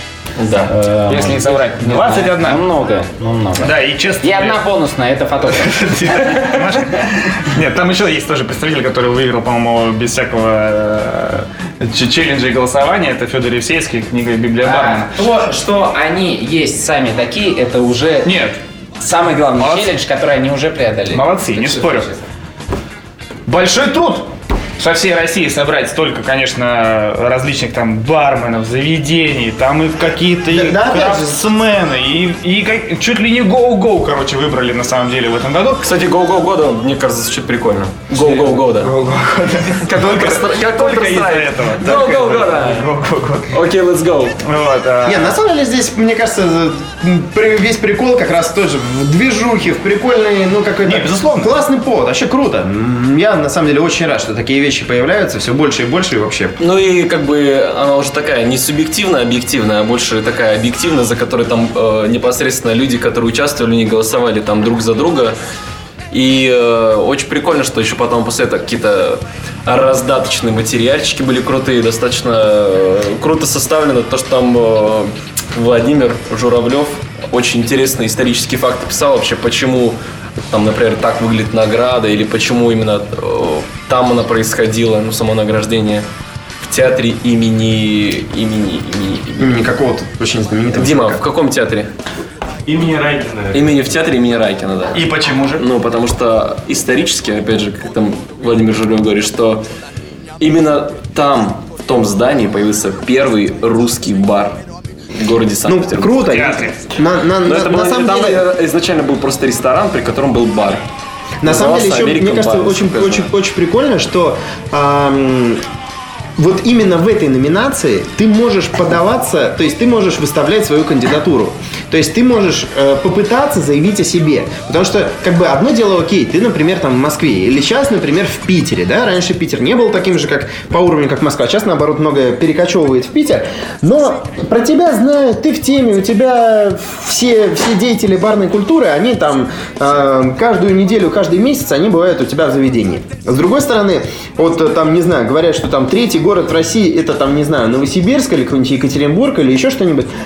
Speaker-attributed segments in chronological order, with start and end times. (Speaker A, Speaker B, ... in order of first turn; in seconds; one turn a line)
Speaker A: 0.4-0.7
Speaker B: 0.7-6.6
Speaker C: 1.1-2.6
Speaker C: 3.6-4.6
Speaker C: 5.6-15.1
Speaker B: 14.6-18.3
Speaker C: 18.2-18.6
Speaker B: 19.0-22.2
Speaker C: 19.6-19.9
Speaker C: 21.1-22.1
Speaker C: 23.5-35.9
Speaker D: 30.5-31.4
Speaker A: 35.8-38.9
Speaker C: 38.1-43.5
Speaker A: 39.8-42.9
Speaker A: 43.5-44.4
Speaker C: 44.4-45.3
Speaker D: 45.0-56.6
Speaker C: 50.8-51.5
Speaker A: 56.6-65.3
Speaker A: 66.1-80.0
Speaker A: 80.5-86.0
Speaker A: 86.6-89.6
Speaker D: 89.4-91.2
Speaker A: 90.7-91.9
Speaker C: 92.7-93.6
Speaker A: 93.5-95.0
Speaker C: 94.9-95.6
Speaker A: 95.6-99.6
Speaker A: 100.4-104.6
Speaker A: 105.1-106.2
Speaker D: 105.7-108.4
Speaker C: 106.3-106.8
Speaker A: 107.4-110.8
Speaker D: 111.4-115.6
Speaker A: 111.4-113.3
Speaker D: 116.4-150.1